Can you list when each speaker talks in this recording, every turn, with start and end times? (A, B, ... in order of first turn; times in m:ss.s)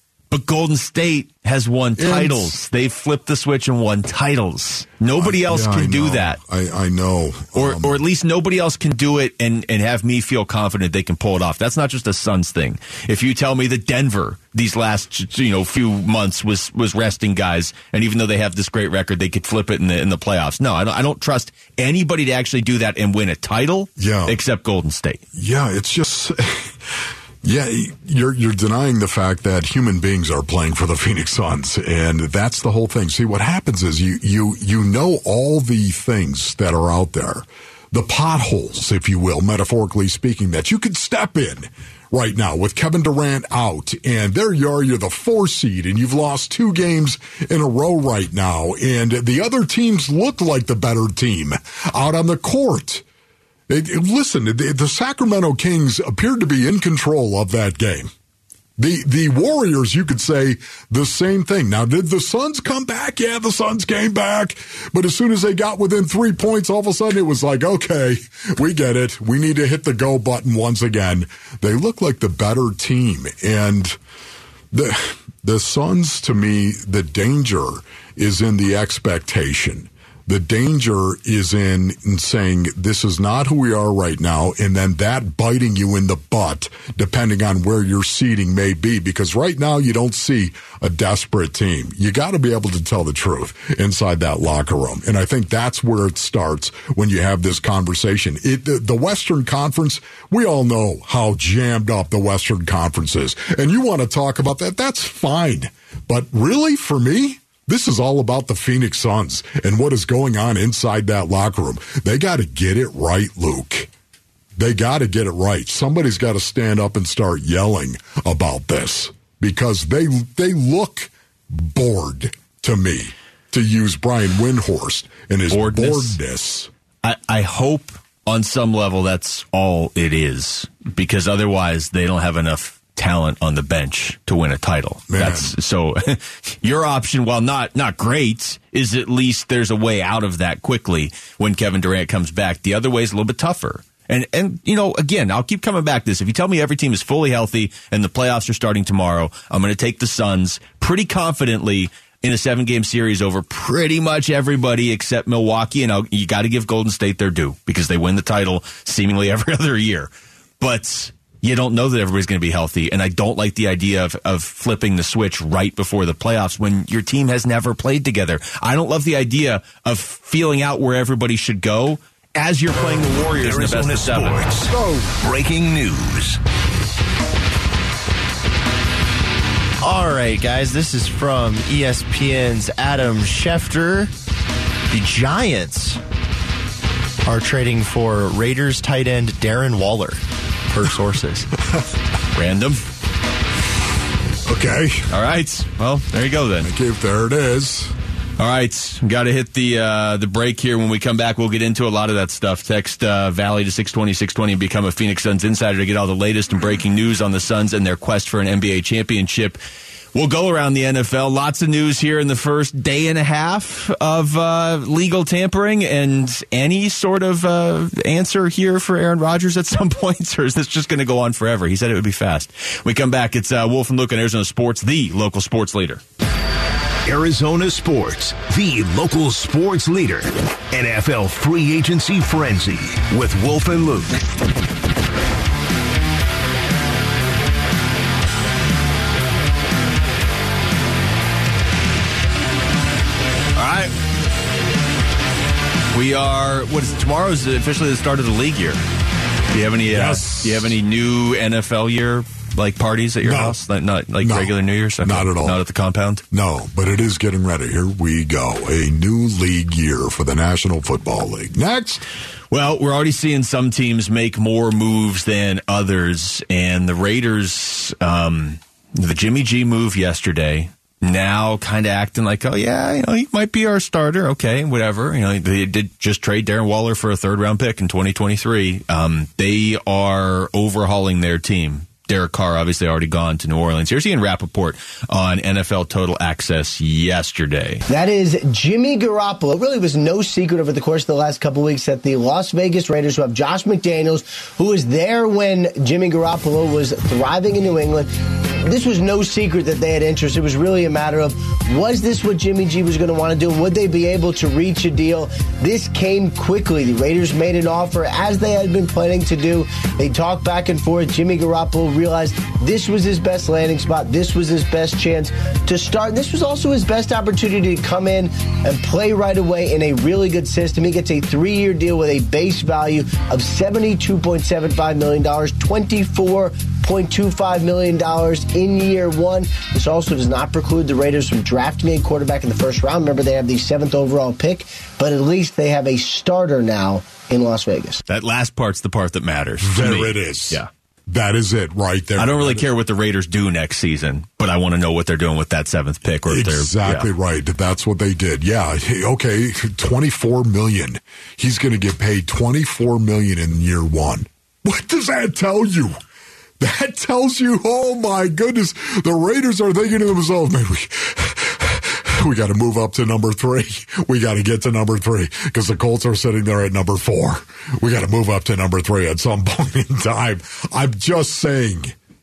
0:00.3-0:06.4 A
0:02.0-0:02.6 B
0:05.2-0:08.0 B
0:07.5-0:25.2 A
0:24.0-0:24.4 B
0:25.4-0:53.0 B
0:53.7-0:58.1 B
0:58.8-1:14.0 B
1:14.7-1:53.9 B
1:54.6-2:06.7 B
2:05.5-2:06.2 A
2:07.0-2:40.1 A
2:15.1-2:15.5 B
2:40.6-2:54.5 A
2:52.9-2:56.4 C
2:54.7-2:55.2 B
2:59.8-3:04.1 D
3:04.9-3:06.0 D
3:07.2-3:11.5 D
3:12.3-3:12.8 A
3:14.5-3:15.1 B
3:15.1-3:16.7 A
3:16.6-3:17.9 B
3:18.4-3:29.6 A
3:30.1-3:46.0 A
3:47.1-3:54.2 C
4:03.6-4:03.9 A
4:05.9-4:08.8 A
4:09.5-4:16.2 A
4:09.9-4:10.8 B
4:13.2-4:13.6 B
4:14.2-4:15.6 B
4:16.3-4:22.0 B
4:22.5-4:47.8 A
4:47.9-4:58.1 E
4:58.6-5:38.0 E
5:38.1-5:40.7 A
5:39.6-5:42.6 B
5:42.2-5:47.1 A
5:46.3-5:56.0 B
5:56.6-6:12.0 B